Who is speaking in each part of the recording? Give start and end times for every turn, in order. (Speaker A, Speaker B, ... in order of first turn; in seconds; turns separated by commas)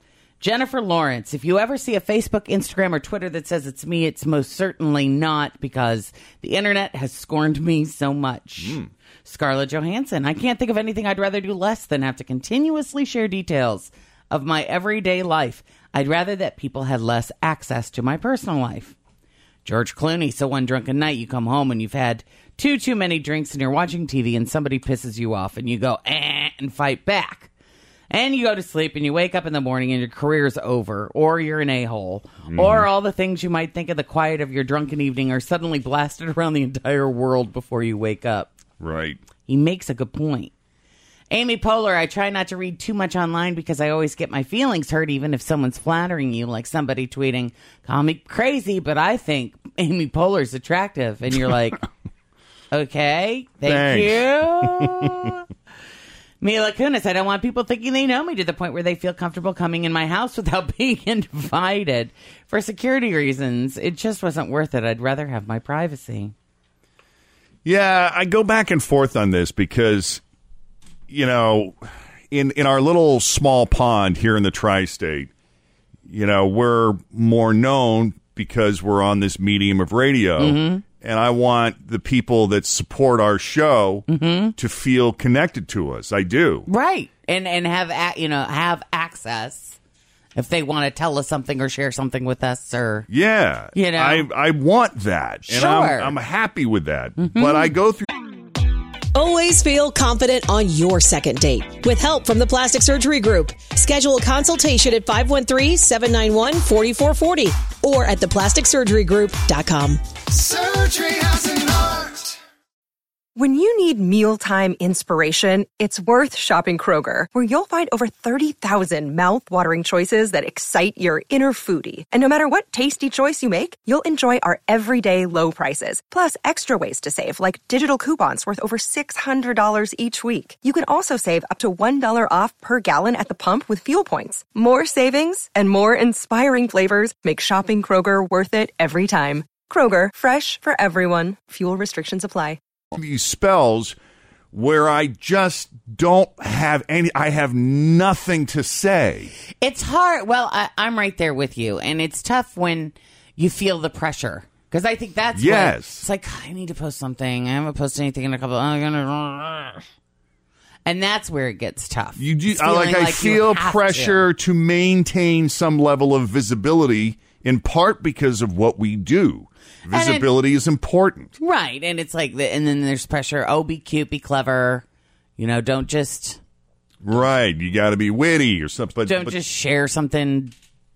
Speaker A: 0.4-18.9, Speaker B: 8.6-8.9, Speaker A: 19.6-27.5, Speaker A: 28.1-38.5, Speaker B: 32.5-32.9, Speaker B: 38.8-39.2, Speaker A: 39.5-40.5, Speaker A: 41.3-51.8, Speaker A: 52.7-55.4, Speaker B: 53.6-55.3, Speaker A: 56.4-66.3, Speaker B: 67.6-70.2, Speaker B: 71.1-75.3, Speaker B: 76.1-86.7, Speaker A: 80.4-80.8, Speaker A: 84.1-84.5, Speaker A: 86.7-89.8, Speaker A: 90.3-93.1, Speaker B: 93.1-98.1, Speaker A: 93.7-94.3, Speaker A: 95.5-96.2, Speaker A: 97.2-97.7, Speaker C: 99.1-110.0, Speaker D: 113.3-142.6, Speaker B: 142.9-143.9, Speaker B: 144.5-149.3, Speaker A: 149.6-159.8, Speaker B: 155.3-156.1, Speaker A: 160.8-164.3, Speaker B: 162.2-171.3, Speaker A: 169.9-170.3, Speaker A: 171.4-174.8, Speaker A: 175.4-176.4, Speaker B: 177.0-179.4, Speaker A: 179.1-180.5